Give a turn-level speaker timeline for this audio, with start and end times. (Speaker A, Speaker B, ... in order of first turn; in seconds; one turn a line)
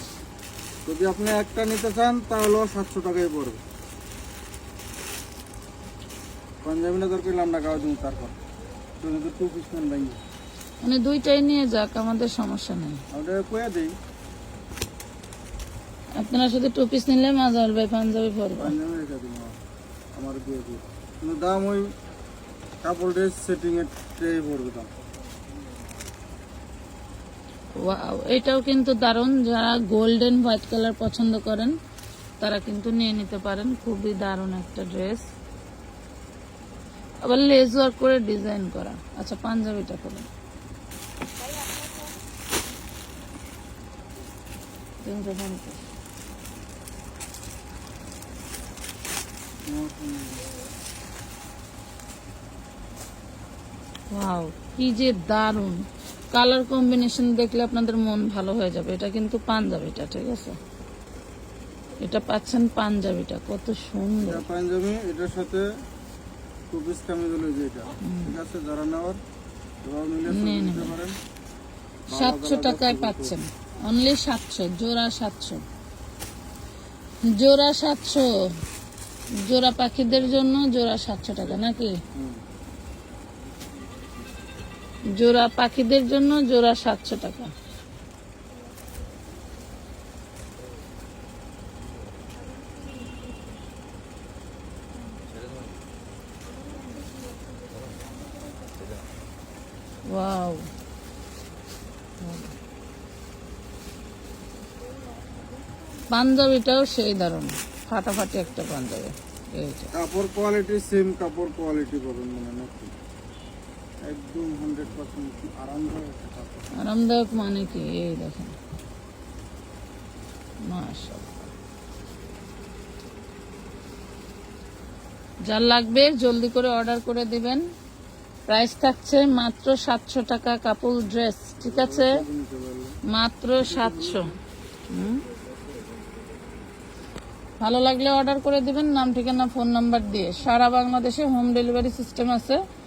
Speaker A: 0.8-3.6
Speaker A: 6.6-8.3
Speaker A: 9.0-10.2
Speaker B: 10.8-13.0
Speaker A: 13.1-13.9
Speaker B: 16.1-18.7
Speaker A: 18.6-19.6
Speaker A: 20.1-21.9
Speaker A: 22.8-24.9
Speaker B: 27.8-31.8
Speaker B: 32.4-35.3
Speaker B: 37.2-40.3
Speaker B: 45.0-45.8
Speaker A: 49.6-50.5
Speaker B: 54.1-60.6
Speaker B: 62.0-64.4
Speaker A: 64.2-65.7
Speaker A: 66.7-69.2
Speaker B: 68.0-68.3
Speaker A: 69.8-71.2
Speaker B: 70.3-71.0
Speaker A: 72.1-73.3
Speaker B: 72.1-75.6
Speaker B: 77.2-78.6
Speaker B: 79.4-82.0
Speaker A: 82.1-82.4
Speaker B: 85.1-87.5
Speaker B: 100.1-100.7
Speaker B: 102.2-102.5
Speaker B: 106.1-109.9
Speaker A: 109.9-112.9
Speaker A: 114.0-116.7
Speaker B: 116.7-118.5
Speaker B: 120.6-121.5
Speaker B: 125.5-127.6
Speaker B: 128.5-132.2
Speaker A: 131.6-133.0
Speaker B: 133.1-134.3
Speaker A: 133.6-134.4
Speaker B: 134.9-135.2
Speaker B: 137.6-142.6